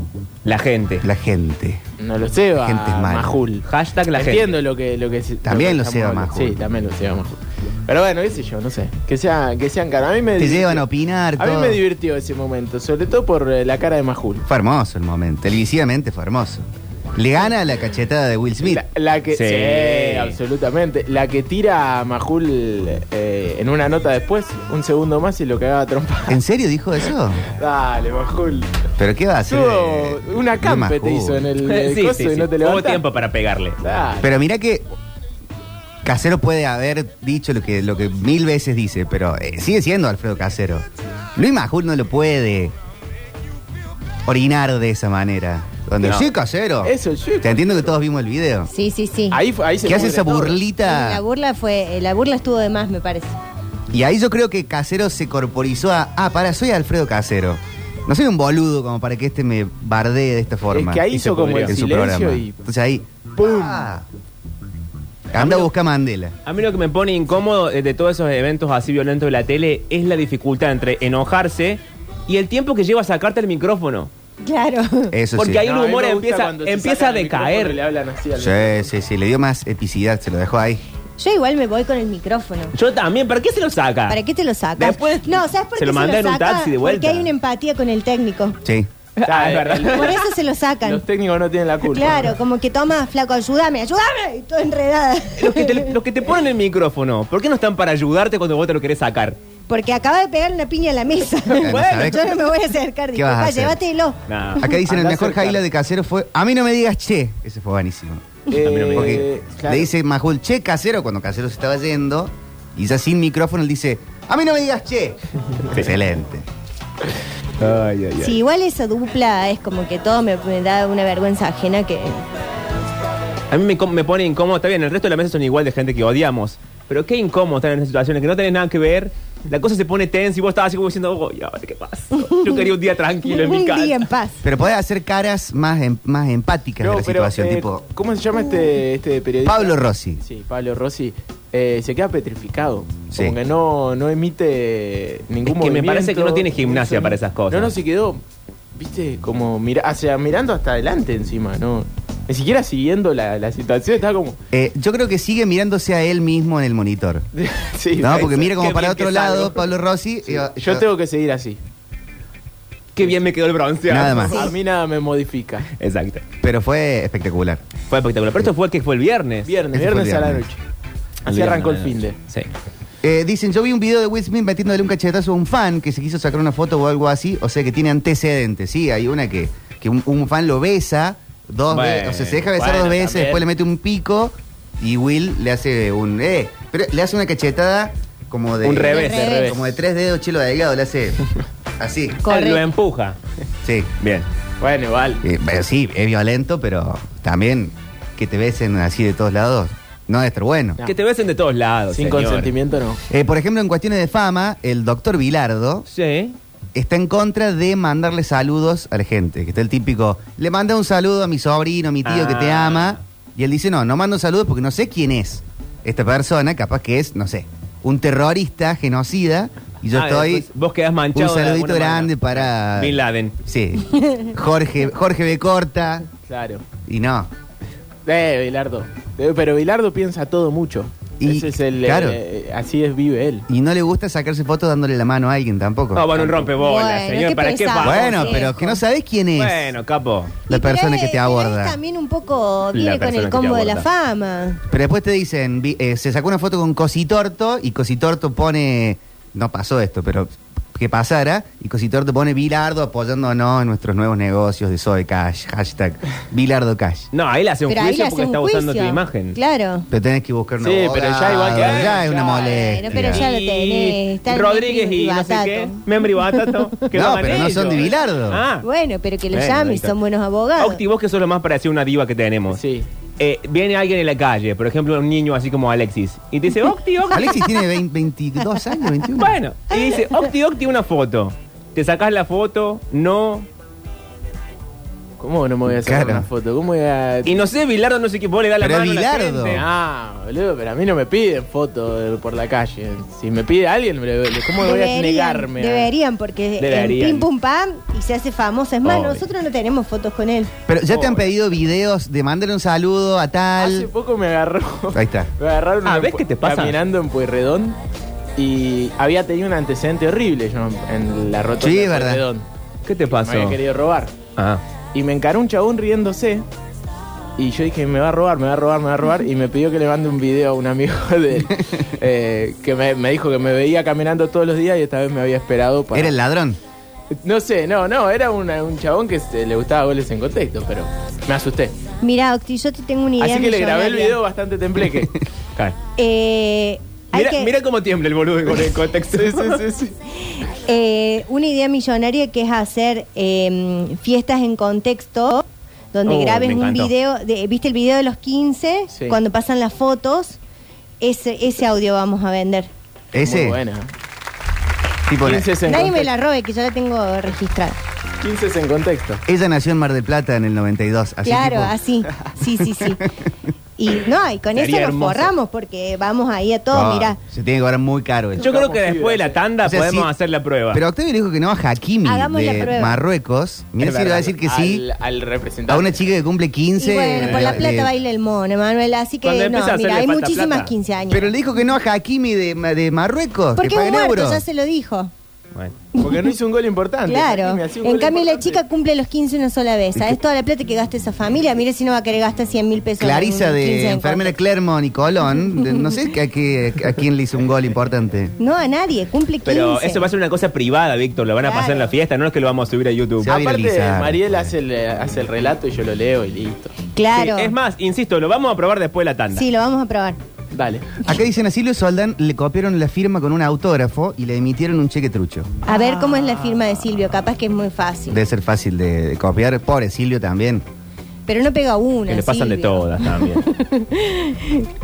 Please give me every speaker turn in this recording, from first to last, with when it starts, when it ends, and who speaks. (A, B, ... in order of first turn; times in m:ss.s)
0:00.4-0:01.1 A
0:01.0-0:01.8 B
0:02.0-0:10.8 C
0:02.6-0:03.4 B
0:03.6-0:04.5 A
0:05.4-0:06.6 B
0:10.4-0:11.8 B
0:11.4-0:14.4 C
0:14.5-0:18.8 B
0:18.6-0:26.4 C
0:19.3-0:20.4 A
0:26.3-0:27.4 B
0:27.6-0:28.7 C
0:29.0-0:31.5 B
0:29.5-0:33.0 C
0:31.6-0:33.8 A
0:33.8-0:34.3 C
0:34.2-0:34.8 B
0:36.0-0:42.8 B
0:44.3-0:48.7 B
0:46.8-0:47.9 C
0:48.7-0:49.4 D
0:49.3-0:50.6 C
0:49.8-0:51.2 B
0:50.8-0:53.4 D
0:53.9-1:01.0 B
1:00.7-1:02.5 C
1:01.1-1:01.8 A
1:01.7-1:04.1 B
1:03.4-1:03.8 C
1:05.3-1:06.3 B
1:05.3-1:05.7 A
1:06.5-1:14.1 A
1:14.4-1:15.2 D
1:15.1-1:15.6 B
1:15.4-1:17.8 A
1:15.6-1:18.8 C
1:18.4-1:20.8 B
1:21.2-1:22.7 D
1:22.7-1:24.2 A
1:24.1-1:28.6 D
1:24.8-1:27.3 A
1:28.6-1:28.9 B
1:29.2-1:30.3 A
1:29.3-1:30.2 C
1:29.9-1:31.0 D
1:30.8-1:32.3 C
1:31.9-1:35.9 D
1:35.4-1:39.4 A
1:39.7-1:44.2 D
1:41.5-1:42.3 A
1:41.6-1:42.2 B
1:43.1-1:43.8 B
1:44.3-1:44.7 A
1:44.6-1:48.3 B
1:44.8-1:45.6 C
1:48.5-1:49.9 C
1:48.6-1:49.2 A
1:48.9-1:56.5 B
1:57.6-1:58.4 A
1:58.2-2:02.2 D
2:03.5-2:14.0 A
2:12.1-2:12.7 D
2:13.2-2:14.4 D
2:14.4-2:17.8 B
2:16.8-2:28.2 C
2:19.4-2:20.2 B
2:23.1-2:23.4 B
2:25.4-2:27.7 A
2:28.8-2:34.4 C
2:34.5-2:37.3 B
2:37.4-2:38.6 C
2:38.0-2:40.9 B
2:38.1-2:39.6 A
2:40.2-2:41.6 C
2:43.0-2:44.5 A
2:43.9-2:44.5 B
2:44.3-2:45.7 C
2:45.8-2:46.2 A
2:46.4-2:47.6 B
2:47.9-2:49.5 A
2:49.5-2:50.6 C
2:49.7-2:50.5 B
2:51.2-2:52.2 C
2:51.3-2:52.5 A
2:53.0-3:11.2 B
3:01.7-3:02.4 A
3:02.5-3:03.4 C
3:08.6-3:09.5 A
3:08.8-3:09.8 C
3:08.9-3:09.5 D
3:11.8-3:12.2 B
3:12.2-3:12.7 D
3:12.3-3:13.2 A
3:13.6-3:13.9 B
3:14.0-3:14.3 A
3:14.6-3:15.2 C
3:15.2-3:20.8 B
3:20.8-3:22.5 A
3:21.9-3:23.0 C
3:23.1-3:25.9 B
3:25.9-3:26.4 A
3:26.8-3:40.5 B
3:32.0-3:33.0 A
3:39.9-3:43.4 A
3:41.1-3:46.1 B
3:46.2-3:46.6 C
3:46.9-3:47.3 B
3:48.0-3:53.5 C
3:51.2-3:52.2 B
3:53.5-3:56.5 B
3:55.9-3:58.6 A
3:56.6-3:58.6 D
3:57.8-3:59.7 B
3:59.4-4:00.4 A
4:00.5-4:01.8 B
4:00.5-4:04.6 D
4:02.7-4:03.9 A
4:04.7-4:17.1 B
4:17.1-4:19.4 A
4:17.7-4:19.9 D
4:19.9-4:23.3 B
4:20.6-4:22.8 C
4:21.3-4:22.0 A
4:22.2-4:26.6 D
4:22.9-4:28.7 A
4:26.9-4:28.5 B
4:28.6-4:30.8 D
4:29.3-4:29.9 A
4:30.6-4:32.6 A
4:32.5-4:32.9 C
4:33.2-4:37.4 A
4:37.1-4:39.4 B
4:39.2-4:43.5 A
4:45.2-4:47.4 C
4:45.7-4:46.3 B
4:47.2-4:49.7 A
4:48.6-4:49.6 B
4:49.5-4:55.9 C
4:54.6-5:00.5 D
4:56.6-4:57.3 A
4:58.8-4:59.2 A
5:00.7-5:03.9 B
5:00.9-5:01.3 A
5:03.6-5:07.8 C
5:04.9-5:05.3 B
5:05.8-5:06.8 A
5:08.4-5:12.5 C
5:11.6-5:12.2 B
5:12.8-5:13.6 A
5:13.1-5:14.1 C
5:14.4-5:14.6 A
5:14.9-5:16.5 C
5:17.4-5:26.2 C
5:21.5-5:21.8 B
5:25.9-5:26.6 B
5:27.2-5:31.8 C
5:32.0-5:34.2 D
5:33.2-5:35.2 C
5:36.0-5:37.5 D
5:37.1-5:39.6 A
5:38.6-5:39.9 C
5:40.4-5:50.4 D
5:46.1-5:46.9 A
5:48.9-5:49.2 C
5:51.0-5:52.7 D
5:53.1-5:53.6 B
5:53.2-5:53.9 C
5:55.1-5:55.6 B
5:55.2-5:56.1 C
5:55.6-5:57.8 D
5:58.2-5:59.2 C
5:59.3-6:01.7 B
6:01.2-6:03.0 D
6:03.8-6:07.2 D
6:04.6-6:05.3 A
6:06.7-6:08.6 B
6:08.4-6:09.4 C
6:08.4-6:10.8 A
6:09.6-6:10.1 B
6:10.7-6:14.8 B
6:12.0-6:13.0 D
6:13.8-6:14.3 A
6:14.3-6:16.1 C
6:15.7-6:17.9 B
6:16.8-6:21.3 D
6:17.2-6:17.6 A
6:19.2-6:20.7 A
6:21.1-6:24.4 B
6:23.6-6:25.1 D
6:26.0-6:28.6 C
6:27.1-6:34.4 D
6:33.0-6:38.3 B
6:38.4-6:40.1 D
6:39.4-6:43.4 A
6:41.4-6:41.9 D
6:43.2-6:44.5 B
6:43.2-6:46.8 C
6:47.0-6:47.5 D
6:47.1-6:49.4 A
6:49.4-6:50.2 D
6:50.5-6:50.9 C
6:51.0-6:55.5 B
6:55.7-6:58.2 D
6:58.1-7:00.6 B
7:01.3-7:04.7 D
7:02.1-7:03.4 A